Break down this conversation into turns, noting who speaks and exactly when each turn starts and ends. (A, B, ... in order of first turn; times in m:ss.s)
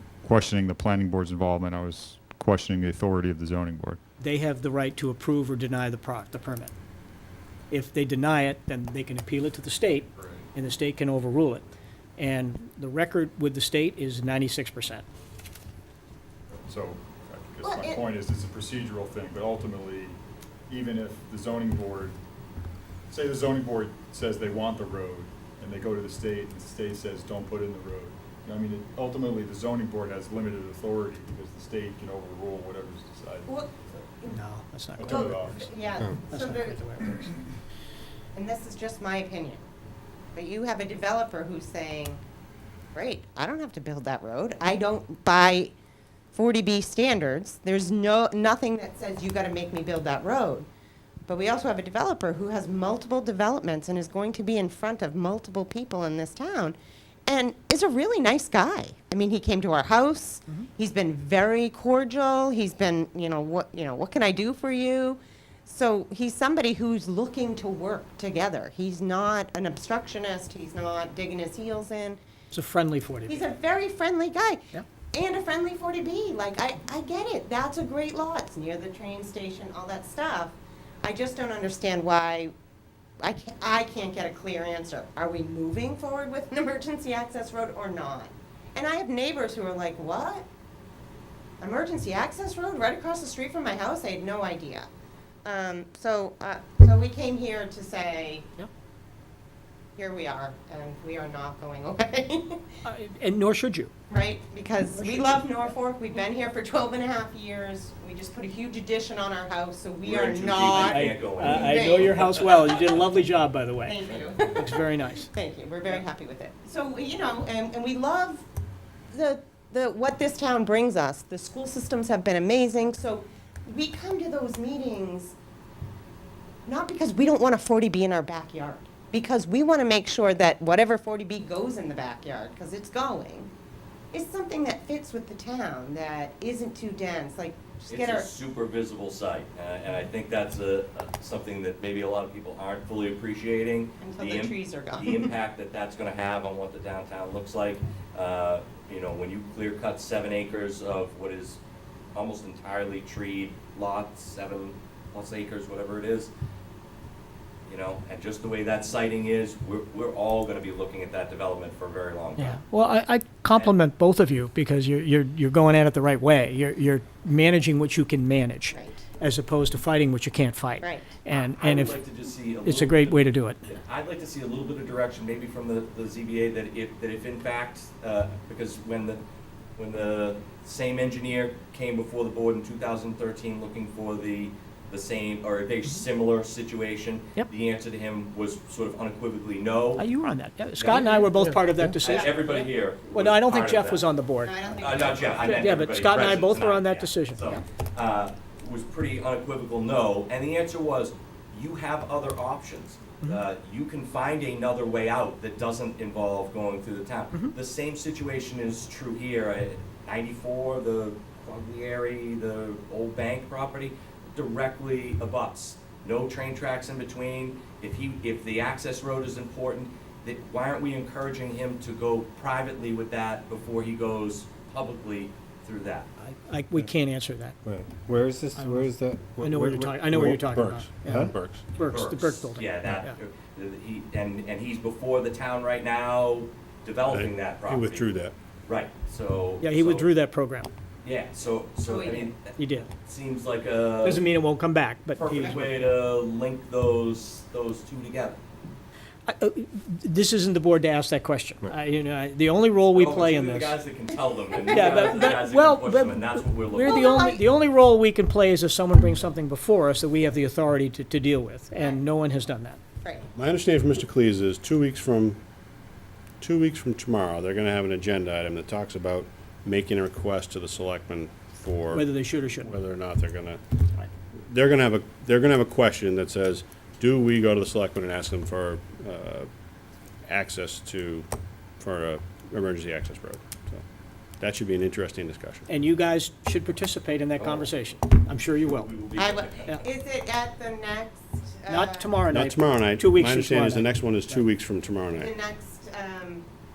0:00.2-0:04.0 A
0:04.2-0:06.7 B
0:07.7-0:11.7 B
0:12.2-0:15.0 B
0:16.7-0:22.2 A
0:17.6-0:18.0 C
0:23.1-0:33.5 A
0:33.5-0:34.4 C
0:34.3-0:37.3 B
0:35.0-0:35.6 A
0:35.1-0:36.9 C
0:38.4-0:39.6 C
0:40.3-0:42.2 C
0:43.0-0:45.7 C
0:46.3-0:50.7 C
0:51.3-0:56.8 C
0:57.3-1:12.2 C
1:12.5-1:13.4 B
1:13.3-1:14.6 C
1:15.1-1:22.5 C
1:23.2-1:30.5 C
1:31.6-1:34.9 C
1:35.4-1:38.5 C
1:40.0-1:42.8 C
1:42.8-1:43.9 B
1:44.1-1:52.2 C
1:45.0-1:45.4 B
1:50.0-1:52.4 D
1:50.8-1:55.3 B
1:53.8-1:54.7 C
1:55.2-1:58.4 C
1:59.1-2:05.4 C
2:06.7-2:13.5 C
2:14.1-2:18.3 C
2:17.9-2:31.6 D
2:24.0-2:25.3 C
2:32.2-2:36.3 D
2:37.7-2:42.6 D
2:42.4-2:52.0 B
2:48.7-2:49.0 C
2:50.8-2:51.1 C
2:51.4-2:59.2 D
2:52.6-2:53.6 B
2:59.8-3:10.1 D
3:10.0-3:12.6 B
3:10.8-3:11.4 D
3:12.0-3:14.1 D
3:12.0-3:12.7 C
3:13.1-3:14.6 B
3:14.4-3:15.9 C
3:14.8-3:46.1 D
3:15.2-3:17.5 B
3:46.2-3:47.6 B
3:48.1-3:51.3 E
3:48.6-3:53.2 B
3:50.1-3:51.6 F
3:51.8-3:58.1 D
3:57.1-3:58.3 F
3:58.7-4:00.1 D
3:59.6-4:00.7 B
4:01.0-4:04.2 D
4:01.8-4:02.4 C
4:02.6-4:02.9 B
4:04.0-4:05.8 B
4:05.2-4:08.4 D
4:09.3-4:13.8 B
4:12.9-4:17.2 D
4:14.6-4:22.8 B
4:16.8-4:17.4 C
4:23.0-4:23.3 C
4:23.4-4:25.4 F
4:26.4-4:32.1 F
4:31.9-4:32.8 B
4:32.6-4:33.8 F
4:34.5-4:39.5 F
4:40.3-4:41.3 F
4:41.8-4:43.8 F
4:44.4-4:45.7 F
4:45.7-4:49.0 B
4:47.4-4:47.7 F
4:48.8-4:49.8 D
4:49.2-4:52.1 C
4:51.7-4:54.5 B
4:52.3-4:55.3 F
4:55.1-4:56.4 C